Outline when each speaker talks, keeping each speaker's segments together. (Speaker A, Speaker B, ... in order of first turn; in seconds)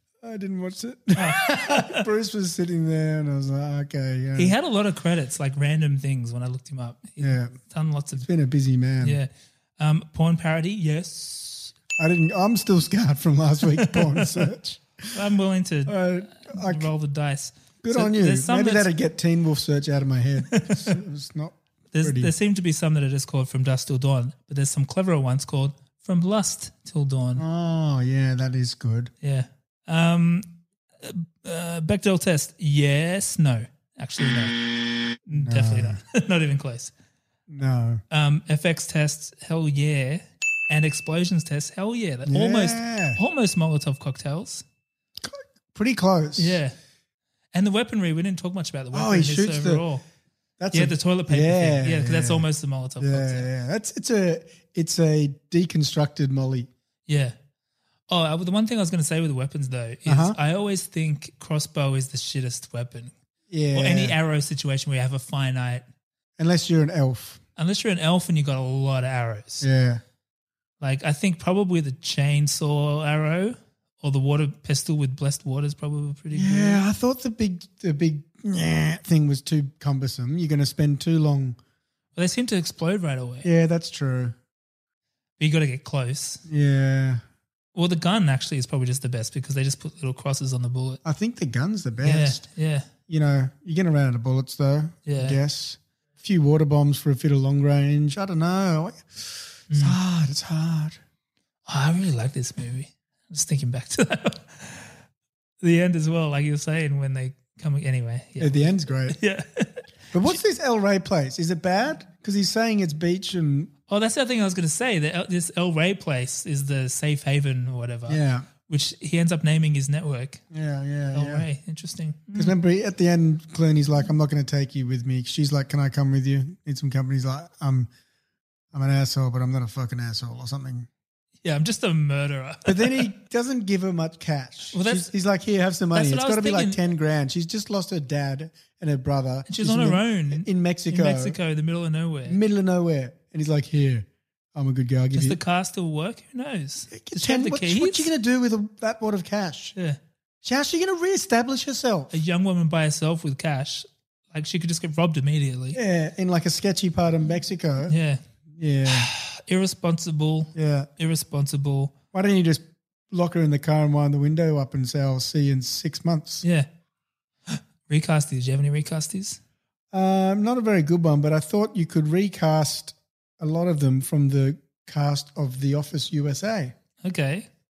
Speaker A: 0.2-4.5, 7.2-7.6, 8.2-9.2, 12.0-15.1, 15.9-16.9, 17.8-22.3, 27.4-29.1, 35.3-36.0, 37.5-38.0, 42.2-43.2, 45.2-46.6, 48.9-49.9, 50.6-52.5, 53.0-56.7, 60.0-60.4, 63.5-64.2, 66.4-67.4, 69.6-70.0, 76.3-81.6, 83.4-84.4, 86.5-87.2, 91.0-92.5, 93.1-101.0, 108.4-109.2, 110.1-113.7, 118.1-118.5, 120.5-121.5, 122.3-127.9, 128.7-130.9, 132.7-141.4, 142.2-145.4, 146.9-149.8, 150.4-152.1, 155.7-158.0, 158.6-159.1, 160.6-160.9, 162.1-166.4, 169.9-176.7
Speaker B: 1.1-2.0, 4.4-8.3, 9.0-11.7, 13.8-14.5, 15.1-18.9, 20.5-20.9, 21.9-27.4, 29.2-30.5, 31.0-34.6, 35.2-36.9, 38.1-44.6, 46.4-46.7, 47.5-50.0, 50.7-53.5, 57.1-57.3, 58.1-63.1, 63.7-65.8, 67.6-69.7, 70.8-76.8, 82.2-83.5, 85.4-86.4, 87.8-91.0, 92.0-92.9, 95.1-95.4, 99.7-100.0, 101.7-104.9, 105.6-110.4, 113.9-120.4, 121.1-122.6, 131.4-133.1, 134.7-135.1, 135.9-136.8, 139.5-142.4, 145.2-148.1, 152.1-155.8, 157.9-158.2, 158.9-161.9, 167.5-169.4, 177.0-177.5